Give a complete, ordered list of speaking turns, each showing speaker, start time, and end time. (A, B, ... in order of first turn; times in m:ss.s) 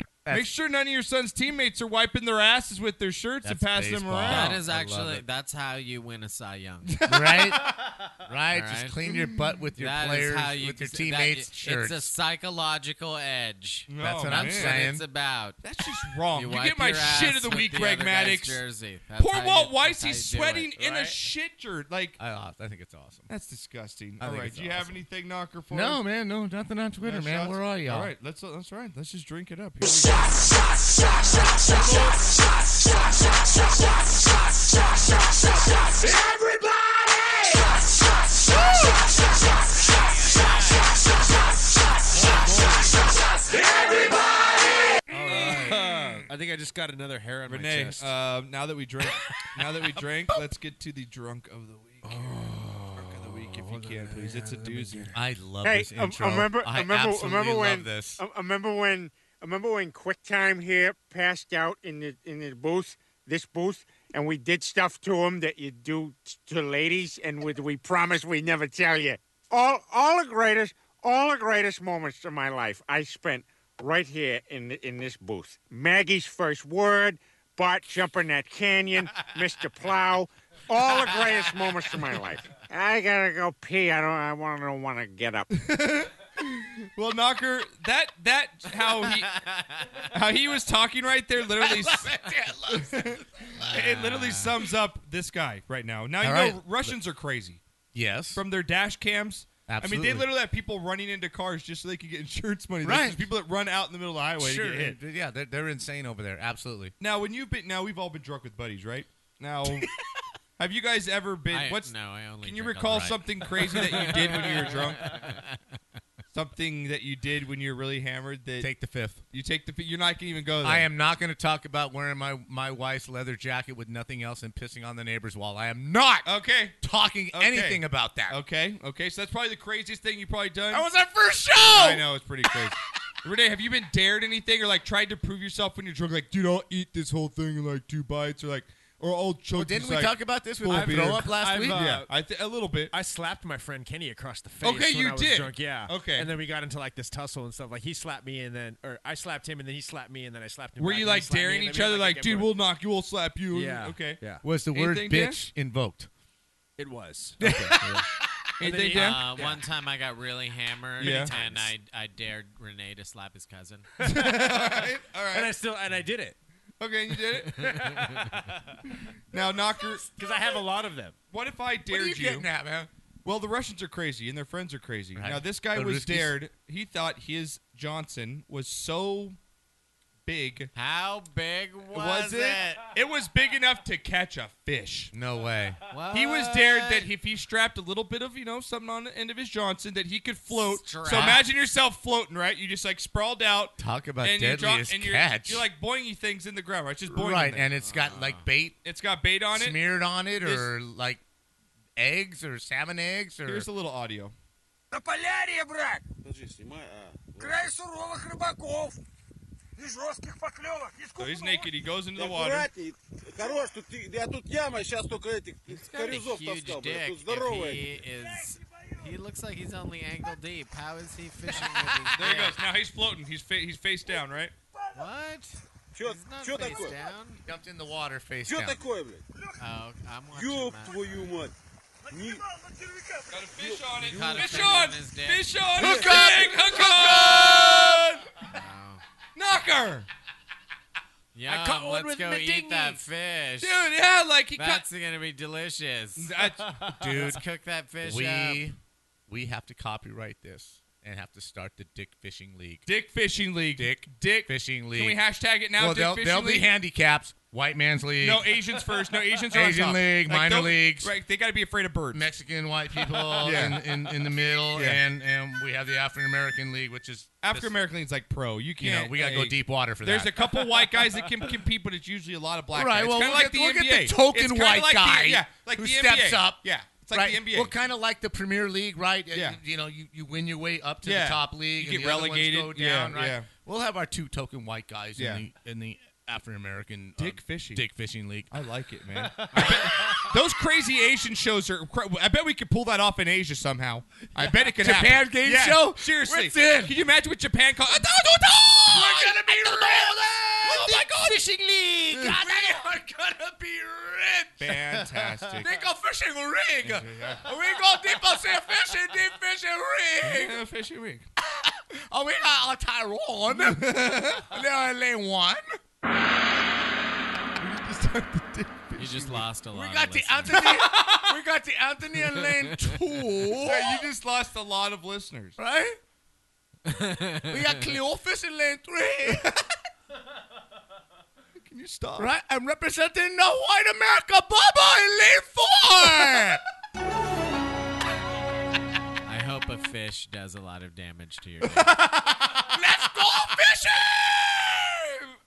0:00.2-0:00.5 A
0:00.3-0:04.6 B
0:03.4-0:05.2 A
0:04.2-0:07.0 C
0:07.0-0:07.7 B
0:07.1-0:07.7 A
0:08.2-0:12.1 A
0:08.5-0:09.0 C
0:09.8-0:15.6 C
0:13.9-0:14.9 B
0:14.0-0:15.0 A
0:15.6-0:18.6 B
0:16.3-0:20.7 C
0:19.2-0:22.2 B
0:20.8-0:21.1 D
0:22.2-0:23.3 A
0:23.3-0:26.0 B
0:24.2-0:25.0 A
0:25.7-0:28.1 A
0:27.0-0:30.5 B
0:31.7-0:32.1 D
0:39.8-0:41.0 C
0:42.1-0:43.0 D
0:43.4-0:43.8 C
0:45.1-0:46.2 B
0:45.2-0:48.1 D
0:47.4-0:55.1 B
0:52.0-0:55.1 D
0:55.1-0:58.2 A
0:55.6-1:25.5 E
1:25.5-1:29.4 B
1:29.4-1:30.0 C
1:30.1-1:37.6 B
1:31.5-1:33.2 A
1:33.6-1:34.6 C
1:36.2-1:37.0 A
1:37.9-1:38.4 A
1:38.3-1:45.0 B
1:39.7-1:40.3 A
1:42.8-1:43.2 A
1:44.4-1:46.9 A
1:47.0-1:49.9 B
1:50.6-1:55.2 B
1:51.5-1:55.8 C
1:56.3-1:58.7 B
1:58.6-1:59.2 A
1:59.3-2:00.9 B
2:00.6-2:06.3 A
2:06.2-2:06.8 B
2:06.8-2:08.4 A
2:07.3-2:10.9 B
2:10.7-2:12.0 A
2:11.6-2:22.9 B
2:19.5-2:21.8 A
2:20.7-2:22.1 D
2:22.9-2:32.5 D
2:24.6-2:26.3 B
2:30.8-2:35.4 B
2:33.5-2:34.4 D
2:34.4-2:36.1 A
2:36.8-2:38.1 D
2:37.4-2:37.9 A
2:38.6-2:39.4 B
2:38.6-2:39.6 D
2:38.9-2:43.9 C
2:41.0-2:41.4 B
2:41.0-2:41.7 D
2:44.0-2:44.8 D
2:44.0-2:45.5 B
2:45.3-2:46.4 D
2:46.8-2:48.1 B
2:48.3-2:48.8 D
2:49.3-2:50.2 B
2:50.0-2:51.2 D
2:51.3-2:52.5 B
2:51.9-2:52.9 A
2:53.2-2:59.4 B
2:55.1-2:56.3 A
3:00.2-3:00.7 B
3:00.7-3:02.8 C
3:01.9-3:05.1 B
3:05.1-3:05.8 A
3:05.9-3:07.1 C
3:06.1-3:17.7 B
3:10.5-3:11.4 C
3:11.0-3:11.4 A
3:13.8-3:15.6 A
3:17.1-3:18.8 A
3:17.8-3:18.5 C
3:18.8-3:19.8 B
3:19.5-3:21.2 A
3:20.4-3:20.7 B
3:22.0-3:23.7 A
3:23.4-3:24.3 B
3:24.9-3:29.0 F
3:29.8-3:38.0 F
3:31.2-3:32.7 B
3:35.7-3:42.6 C
3:42.0-3:44.5 B
3:44.9-3:47.4 C
3:45.9-3:47.1 F
3:47.4-3:48.8 A
3:48.4-3:49.2 F
3:49.6-3:51.1 C
3:50.3-3:51.5 F
3:52.1-3:54.7 F
3:53.3-3:58.5 B
3:54.0-3:56.2 C
3:55.7-3:58.0 A
3:58.4-3:59.0 C
3:59.3-4:00.1 B
4:01.3-4:03.9 C
4:01.5-4:03.0 D
4:03.6-4:04.8 B
4:04.5-4:06.4 C
4:06.2-4:06.8 B
4:06.9-4:07.4 A
4:07.0-4:08.7 C
4:08.0-4:08.8 A
4:09.3-4:12.9 A
4:12.8-4:16.7 B
4:13.8-4:15.2 A
4:15.8-4:18.6 A
4:18.2-4:22.3 B
4:19.5-4:21.1 A
4:22.1-4:27.7 A
4:23.0-4:23.6 D
4:23.4-4:23.8 B
4:24.7-4:25.0 B
4:27.4-4:37.7 B
4:28.8-4:31.0 A
4:32.7-4:48.5 A
4:39.3-4:39.6 B
4:41.0-4:43.5 B
4:45.2-4:45.4 B
4:47.2-4:47.8 B
4:48.5-5:00.1 B
4:49.3-4:50.2 D
4:49.5-4:49.8 A
4:54.3-4:56.9 A
4:58.8-5:05.0 A
4:59.1-5:00.1 D
5:00.6-5:01.4 B
5:02.1-5:02.7 B
5:04.6-5:05.7 B
5:05.6-5:10.6 A
5:06.8-5:07.4 B
5:10.2-5:11.2 B
5:11.5-5:15.8 A
5:13.5-5:14.5 B
5:17.6-5:19.5 B
5:19.0-5:20.9 C
5:19.7-5:24.1 A
5:20.5-5:21.3 B
5:22.7-5:23.0 C
5:23.4-5:25.6 B
5:25.6-5:26.0 A
5:26.8-5:28.0 C
5:27.5-5:29.5 A
5:31.6-5:32.3 B
5:32.2-5:36.6 A
5:39.2-5:42.0 C
5:42.4-5:44.9 A